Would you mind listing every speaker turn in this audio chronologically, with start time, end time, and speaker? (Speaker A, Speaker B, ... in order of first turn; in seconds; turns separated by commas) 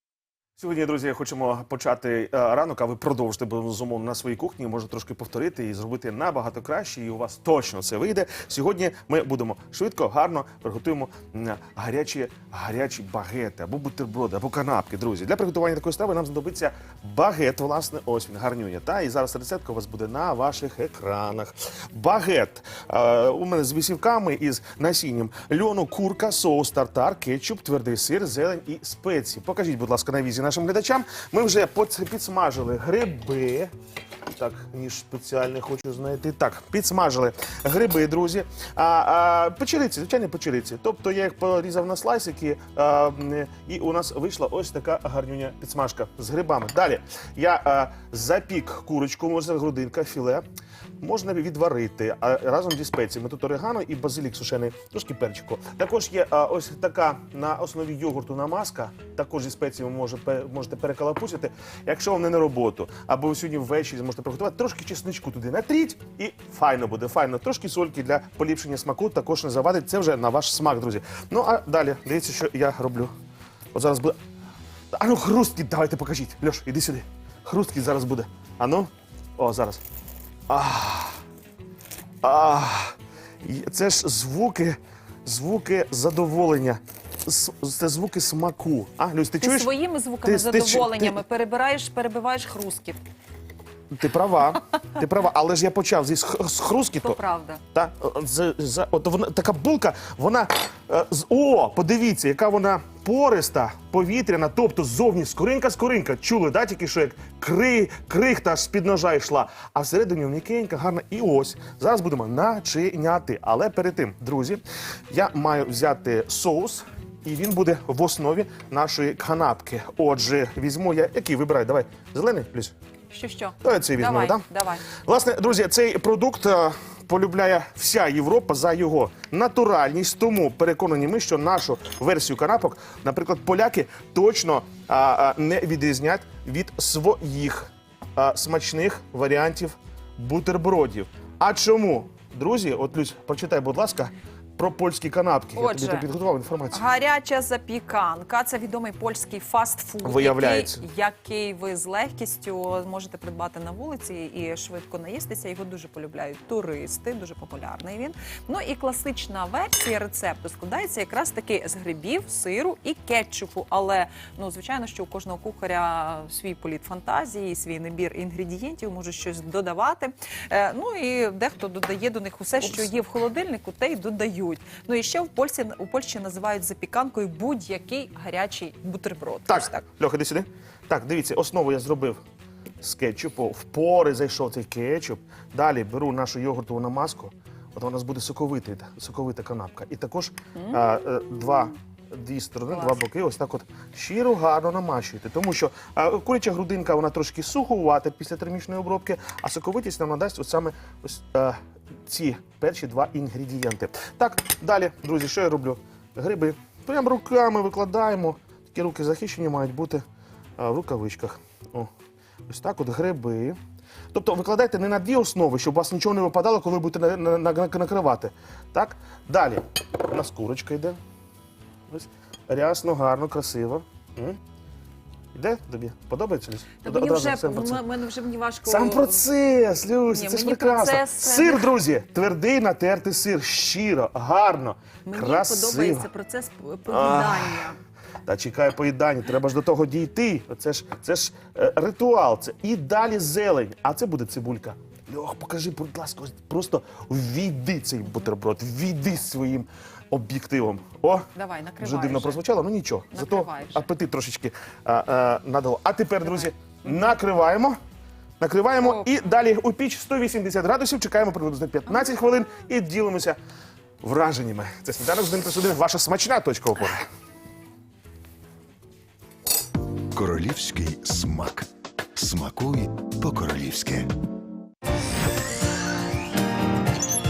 Speaker A: 0.6-33.7, Speaker A: 34.3-50.4, Speaker A: 51.0-73.1, Speaker A: 73.7-74.2, Speaker A: 74.9-79.8, Speaker A: 80.5-81.2, Speaker A: 82.2-89.7, Speaker B: 89.4-93.0, Speaker A: 90.2-91.2, Speaker A: 93.9-97.2, Speaker B: 97.0-97.6, Speaker A: 97.7-122.7, Speaker B: 123.1-124.9, Speaker A: 123.6-124.4, Speaker A: 125.0-146.8, Speaker B: 145.5-146.1, Speaker B: 146.7-179.8, Speaker A: 150.0-150.8, Speaker A: 179.5-182.2, Speaker A: 182.8-210.0, Speaker B: 192.7-193.0, Speaker A: 210.6-211.9, Speaker A: 212.5-213.6, Speaker A: 214.1-221.0, Speaker A: 221.9-224.4, Speaker A: 225.3-227.8, Speaker B: 226.8-229.2, Speaker A: 228.6-236.1, Speaker B: 230.1-231.7, Speaker B: 235.1-237.8, Speaker A: 236.9-237.7, Speaker A: 238.2-251.2, Speaker B: 251.3-252.4, Speaker A: 251.8-257.8, Speaker B: 253.1-253.9, Speaker B: 256.2-257.1, Speaker A: 258.4-263.4, Speaker B: 258.8-259.1, Speaker A: 264.0-267.0, Speaker C: 270.1-274.1